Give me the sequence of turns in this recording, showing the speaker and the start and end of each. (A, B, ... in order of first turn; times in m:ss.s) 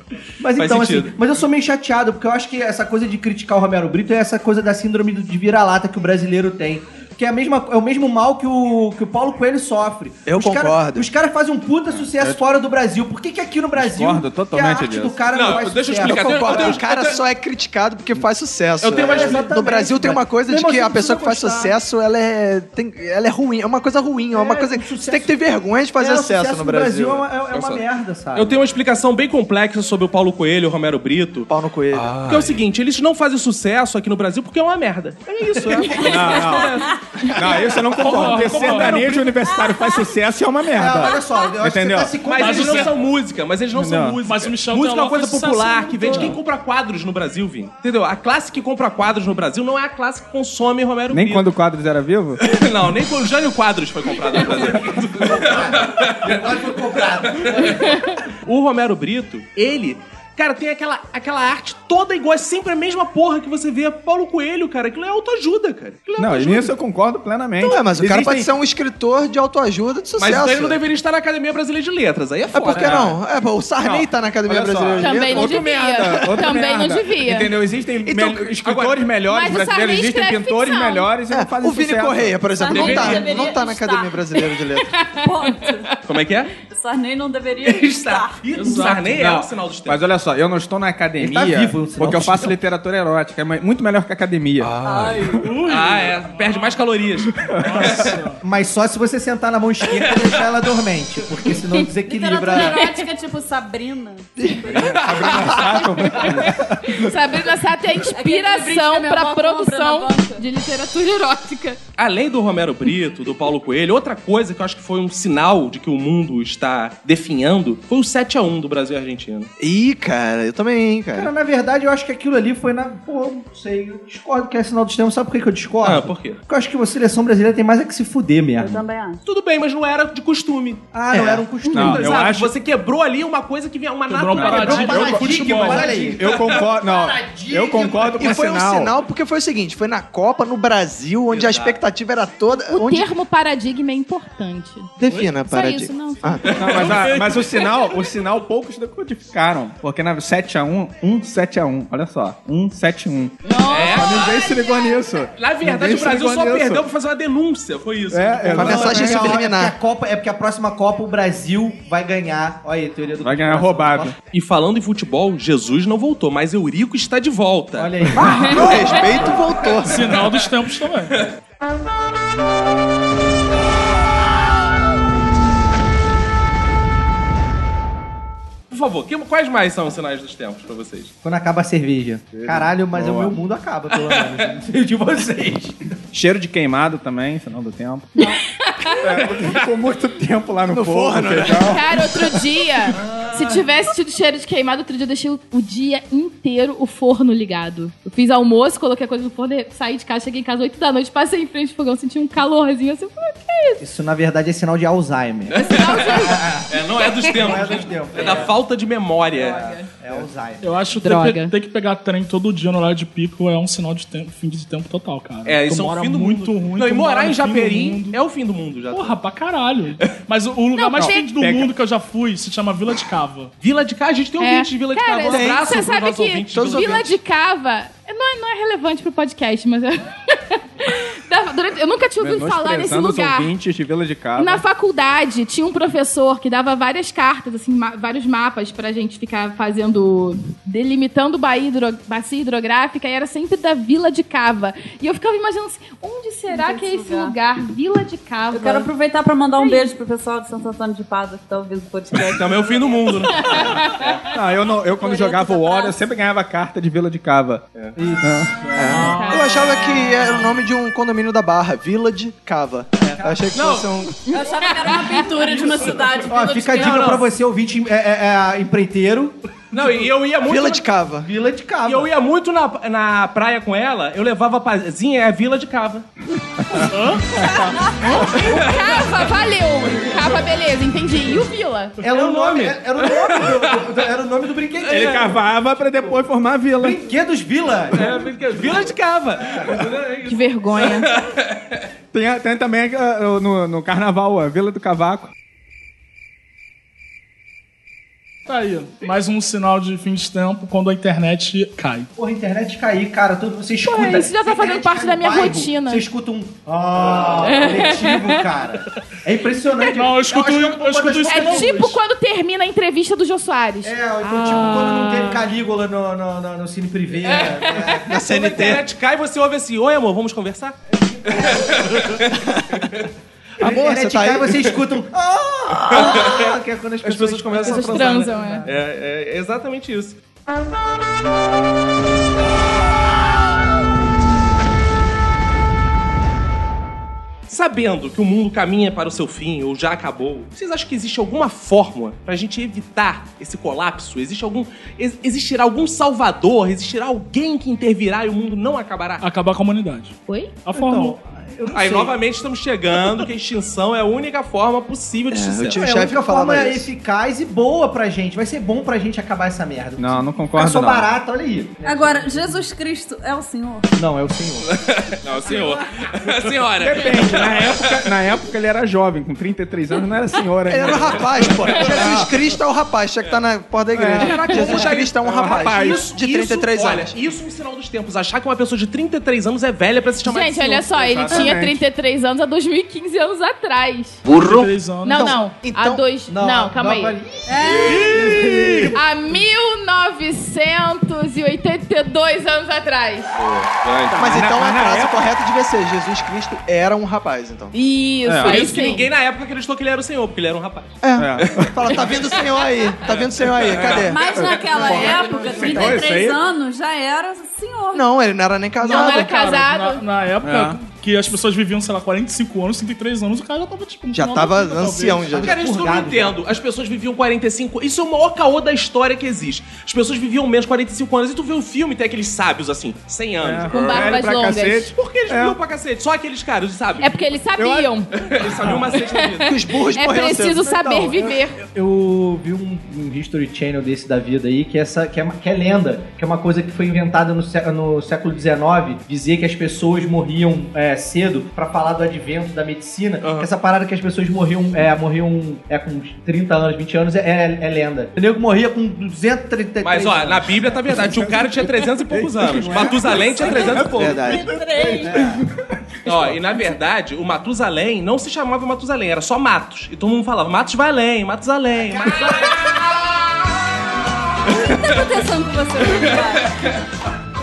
0:00.4-0:16.8 A
0:00.6-0:01.2 B
0:10.3-0:11.1 C
0:11.9-0:12.4 D
0:13.8-0:15.2 D
0:15.3-0:17.2 B
0:16.0-0:27.3 C
0:18.8-0:19.6 B
0:18.9-0:21.8 A
0:24.3-0:25.4 A
0:26.0-0:28.6 A
0:27.5-0:27.8 B
0:28.3-0:39.4 B
0:31.5-0:32.2 C
0:35.5-0:35.9 A
0:35.8-0:36.2 E
0:36.1-0:42.2 D
0:38.0-0:39.2 F
0:39.5-0:39.9 G
0:40.7-0:43.0 A
0:42.2-0:51.5 B
0:42.4-0:43.0 F
0:43.7-0:44.2 D
0:44.2-0:46.4 F
0:51.1-0:52.5 D
0:52.4-1:06.7 B
0:55.2-0:58.2 A
1:06.2-1:08.3 D
1:07.6-1:10.8 C
1:08.0-1:08.4 A
1:10.2-1:13.2 B
1:12.5-1:15.6 C
1:12.8-1:13.1 D
1:14.5-1:22.5 D
1:15.0-1:17.5 E
1:18.1-1:19.1 B
1:19.3-1:21.1 E
1:21.3-1:25.0 C
1:22.6-1:24.2 G
1:22.7-1:23.3 B
1:22.9-1:23.6 E
1:24.4-1:25.9 E
1:25.1-1:26.0 G
1:26.0-1:26.5 B
1:26.6-1:28.4 G
1:27.6-1:30.1 B
1:28.5-1:29.2 F
1:29.1-1:35.4 D
1:31.2-1:32.6 A
1:34.8-1:35.6 G
1:35.3-1:36.8 F
1:35.7-1:38.2 B
1:37.4-1:38.1 D
1:37.6-1:38.4 F
1:38.4-1:43.0 A
1:39.8-1:40.6 B
1:42.0-1:45.0 G
1:44.4-1:46.2 C
1:44.6-1:47.1 D
1:44.8-1:46.3 B
1:46.9-1:51.8 E
1:48.0-1:50.4 G
1:52.0-1:59.5 B
1:59.6-2:01.3 C
2:01.1-2:08.9 A
2:05.8-2:06.4 B
2:08.6-2:09.2 G
2:09.2-2:10.9 B
2:10.9-2:12.2 A
2:11.1-2:11.4 C
2:11.7-2:16.6 B
2:11.7-2:12.5 D
2:14.1-2:16.2 F
2:14.4-2:18.5 A
2:14.4-2:19.0 D
2:18.2-2:23.1 C
2:21.3-2:21.8 B
2:22.7-2:26.4 E
2:25.0-2:26.6 C
2:25.1-2:25.4 F
2:26.6-2:36.9 D
2:26.6-2:27.6 F
2:33.4-2:35.0 E
2:33.7-2:34.6 B
2:35.4-2:39.0 B
2:38.1-2:39.4 D
2:38.5-2:44.2 A
2:38.6-2:39.8 C
2:43.2-2:44.2 D
2:44.3-2:48.2 B
2:47.8-2:49.5 A
2:48.2-2:50.2 C
2:48.2-2:48.6 E
2:49.3-2:50.5 B
2:49.8-2:51.2 F
2:58.7-3:01.1 B
3:01.2-3:05.9 A
3:02.4-3:03.4 D
3:04.0-3:04.5 B
3:06.1-3:08.3 D
3:08.2-3:09.0 E
3:09.0-3:12.2 D
3:10.7-3:11.8 C
3:11.7-3:23.8 E
3:12.9-3:13.6 B
3:23.8-3:28.6 A
3:25.5-3:29.7 B
3:25.6-3:27.4 E
3:29.3-3:30.8 A
3:29.4-3:29.9 E
3:30.6-3:38.2 F
3:31.0-3:31.5 E
3:35.4-3:39.2 B
3:38.9-3:43.5 F
3:40.7-3:41.2 E
3:41.0-3:41.7 D
3:43.6-3:47.1 B
3:44.4-3:53.5 E
3:45.3-3:45.8 C
3:46.5-3:47.2 C
3:52.2-3:54.6 D
3:54.4-4:08.9 E
4:06.5-4:07.4 G
4:08.5-4:14.0 G
4:09.6-4:09.9 E
4:12.3-4:14.2 B
4:13.3-4:14.2 E
4:14.3-4:17.6 D
4:14.9-4:16.0 G
4:18.0-4:19.2 A
4:18.2-4:18.6 D
4:18.7-4:24.2 C
4:18.9-4:19.8 E
4:18.9-4:19.9 F
4:23.0-4:23.5 A
4:23.5-4:23.9 B
4:24.3-4:25.4 E
4:24.3-4:27.2 G
4:25.4-4:29.4 A
4:25.7-4:26.0 F
4:26.7-4:27.2 B
4:29.7-4:30.9 B
4:30.4-4:31.3 C
4:31.2-4:32.1 A
4:31.8-4:36.1 B
4:36.7-4:37.8 D
4:36.8-4:37.4 F
4:37.8-4:42.0 E
4:38.4-4:39.1 B
4:40.1-4:40.4 A
4:42.0-4:46.2 A
4:42.0-4:43.9 B
4:44.8-4:45.3 B
4:44.9-4:47.1 D
4:46.8-4:49.9 A
4:47.9-4:51.6 B
4:50.2-4:51.1 E
4:52.1-4:55.3 D
4:58.5-5:02.1 F
5:02.2-5:11.7 A
5:03.9-5:06.0 E
5:07.5-5:08.4 E
5:09.8-5:12.0 F
5:11.3-5:15.4 E
5:13.8-5:18.7 A
5:17.2-5:17.9 E
5:18.0-5:18.8 C
5:18.2-5:23.1 B
5:21.0-5:22.0 A
5:23.6-5:28.8 A
5:23.6-5:24.6 C
5:25.9-5:30.2 B
5:27.6-5:28.6 E
5:37.5-5:49.2 B
5:49.2-5:51.2 F
5:50.3-5:50.6 E
5:50.7-5:52.2 A
5:51.7-5:55.8 B
5:55.3-5:56.9 C
5:55.7-6:02.6 A
6:00.0-6:01.1 D
6:01.8-6:03.9 G
6:04.0-6:04.8 A
6:04.7-6:08.1 B
6:06.8-6:12.3 D
6:10.7-6:17.1 C
6:13.9-6:16.1 D
6:14.2-6:20.9 B
6:20.2-6:24.2 E
6:20.9-6:21.8 D
6:24.3-6:25.4 F
6:25.0-6:27.2 E
6:25.1-6:26.1 C
6:26.3-6:28.9 A
6:27.5-6:28.4 G
6:27.8-6:29.0 F
6:28.9-6:33.4 E
6:33.4-6:34.5 B
6:34.1-6:35.3 D
6:34.2-6:37.8 C
6:37.7-6:39.1 E
6:38.2-6:38.8 D
6:38.4-6:42.4 B
6:41.0-6:44.3 C
6:41.2-6:41.9 D
6:43.0-6:44.2 B
6:44.0-6:48.1 G
6:44.2-6:46.4 D
6:44.9-6:45.8 E
6:47.9-6:49.4 C
6:48.8-6:55.4 F
6:48.8-6:50.0 E
6:50.4-6:50.8 D
6:54.1-6:55.6 C
6:55.3-6:56.4 A
6:55.4-7:04.2 B
7:03.4-7:05.6 D
7:03.7-7:04.9 E
7:05.0-7:07.3 B
7:07.0-7:08.1 E
7:07.6-7:07.9 D
7:08.2-7:09.6 B
7:08.6-7:08.9 A
7:08.9-7:11.6 E
7:09.4-7:11.2 C
7:11.2-7:31.0 A
7:23.2-7:23.5 B
7:29.8-7:34.2 B
7:30.9-7:36.4 D
7:32.4-7:35.5 A
7:33.4-7:35.2 G
7:33.8-7:34.5 C
7:36.1-7:42.8 B
7:42.0-7:42.3 A
7:44.4-7:46.5 G
7:45.9-7:46.8 B